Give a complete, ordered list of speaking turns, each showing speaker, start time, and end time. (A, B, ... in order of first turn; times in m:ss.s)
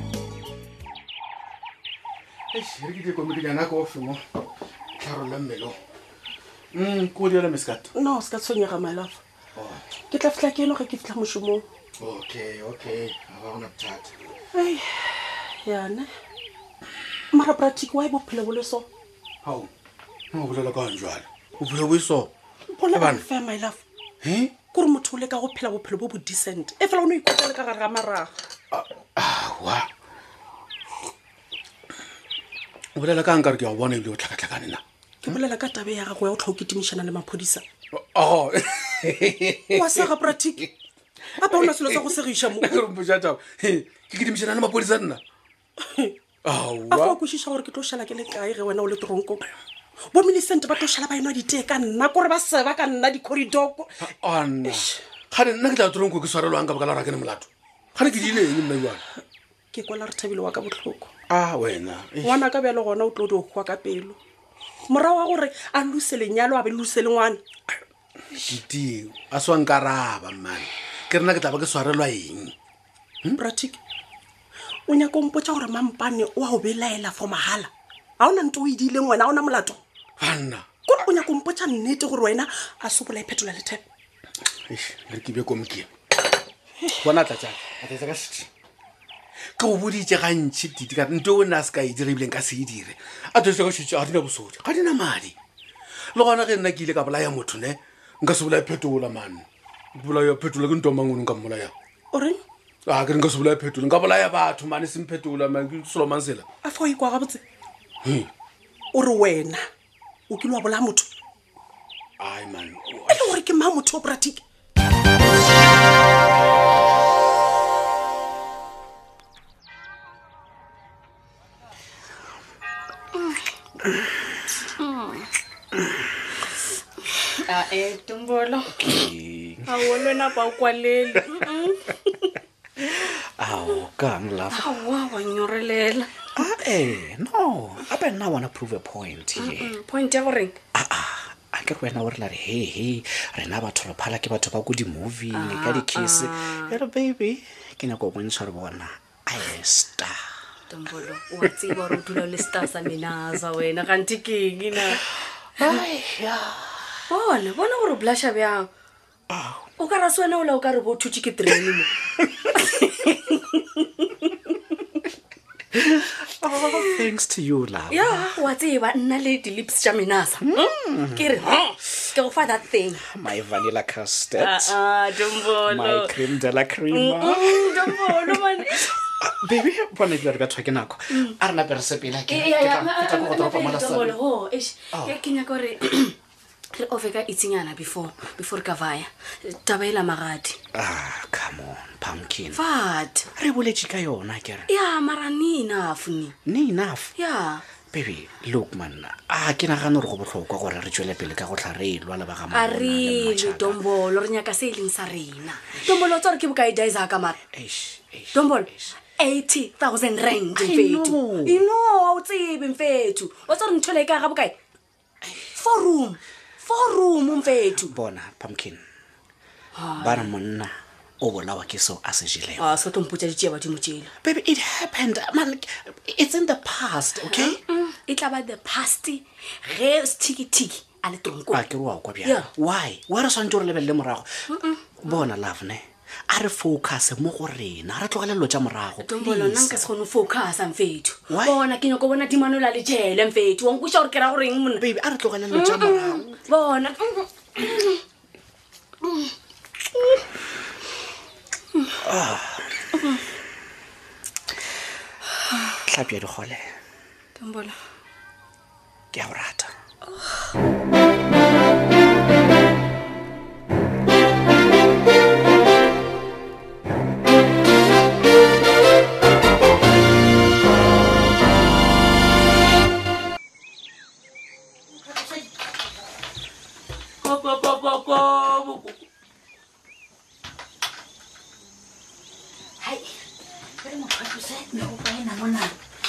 0:02.5-0:04.2 A
0:05.0-0:05.8 A
0:06.7-0:07.9 A
0:07.9-0:09.2 B
0:09.6-0:09.8 A
0:10.1-0:11.6 B
0:12.0-0:14.1 A
0:14.5-0:16.1 B
0:17.3-0:18.9 B
0:19.4-0:19.7 A
0:20.3-0:22.3 A
0:22.7-0:23.8 B
0:22.9-0:23.2 A
0:24.2-0:24.6 A
0:24.7-0:28.3 B
0:28.7-0:29.9 A
0:33.0-0:35.4 A
0:35.2-0:37.6 B
0:37.9-0:40.1 A
0:39.8-0:40.6 B
0:41.4-0:42.7 B
0:41.5-0:42.0 A
0:42.6-0:45.2 A
0:46.4-0:47.2 A
0:46.9-0:49.5 B
0:50.1-0:53.9 B
0:54.0-0:59.0 A
0:54.6-0:55.0 B
0:59.7-1:01.1 B
1:01.3-1:02.4 A
1:02.2-1:04.2 B
1:04.9-1:07.4 B
1:08.4-1:12.5 A
1:13.3-1:13.8 B
1:14.9-1:19.8 B
1:20.2-1:20.7 A
1:20.9-1:23.8 B
1:24.7-1:25.9 A
1:27.0-1:28.5 A
1:29.6-1:35.3 A
1:36.1-1:41.7 A
1:42.1-1:42.4 B
1:42.9-1:46.4 A
1:46.6-1:47.4 B
1:48.0-1:48.3 A
1:48.9-1:49.6 B
1:50.3-1:51.1 B
1:52.2-1:53.4 A
1:53.1-1:54.4 B
2:04.8-2:05.3 C
2:07.4-2:09.0 C
2:08.7-2:09.9 D
2:09.6-2:12.3 C
2:12.8-2:14.7 D
2:14.5-2:16.4 C
2:16.4-2:19.8 D
2:19.4-2:20.6 C
2:20.7-2:30.2 D
2:25.3-2:26.8 C
2:30.7-2:35.1 C
2:31.5-2:32.1 D
2:35.6-2:35.8 C
2:35.6-2:36.8 D
2:37.1-2:38.7 C
2:39.3-2:39.7 D
2:39.8-2:41.9 C
2:42.5-2:44.6 C
2:45.7-2:48.4 D
2:46.6-2:47.1 C
2:47.9-2:53.0 C
2:50.4-2:51.5 D
2:53.0-2:54.8 D
2:54.4-2:56.2 C
2:55.5-3:04.2 D
2:56.9-2:59.0 C
3:01.1-3:01.4 C
3:02.3-3:06.1 C
3:06.7-3:10.6 C
3:10.7-3:12.6 D
3:12.5-3:13.3 C
3:13.4-3:14.7 D
3:14.7-3:16.4 C
3:16.4-3:17.1 D
3:17.2-3:17.6 C
3:17.9-3:23.9 D
3:22.5-3:27.4 C
3:27.5-3:29.0 D
3:28.3-3:34.6 C
3:30.6-3:31.6 D
3:35.5-3:38.0 C
3:37.7-3:38.8 D
3:39.7-3:40.3 C
3:40.0-3:42.8 D
3:42.6-3:44.1 C
3:44.2-3:47.6 D
3:47.3-3:51.6 C
3:51.5-3:59.8 D
3:54.5-3:55.1 C
3:59.0-4:04.8 C
4:01.3-4:01.6 D
4:04.8-4:06.4 D
4:05.5-4:08.0 C
4:12.0-4:12.8 D
4:15.5-4:15.8 C
4:15.9-4:16.7 D
4:17.4-4:17.7 C
4:19.1-4:19.7 D
4:20.0-4:20.3 C
4:37.2-4:38.6 C
4:42.8-4:43.0 E
4:43.8-4:45.7 E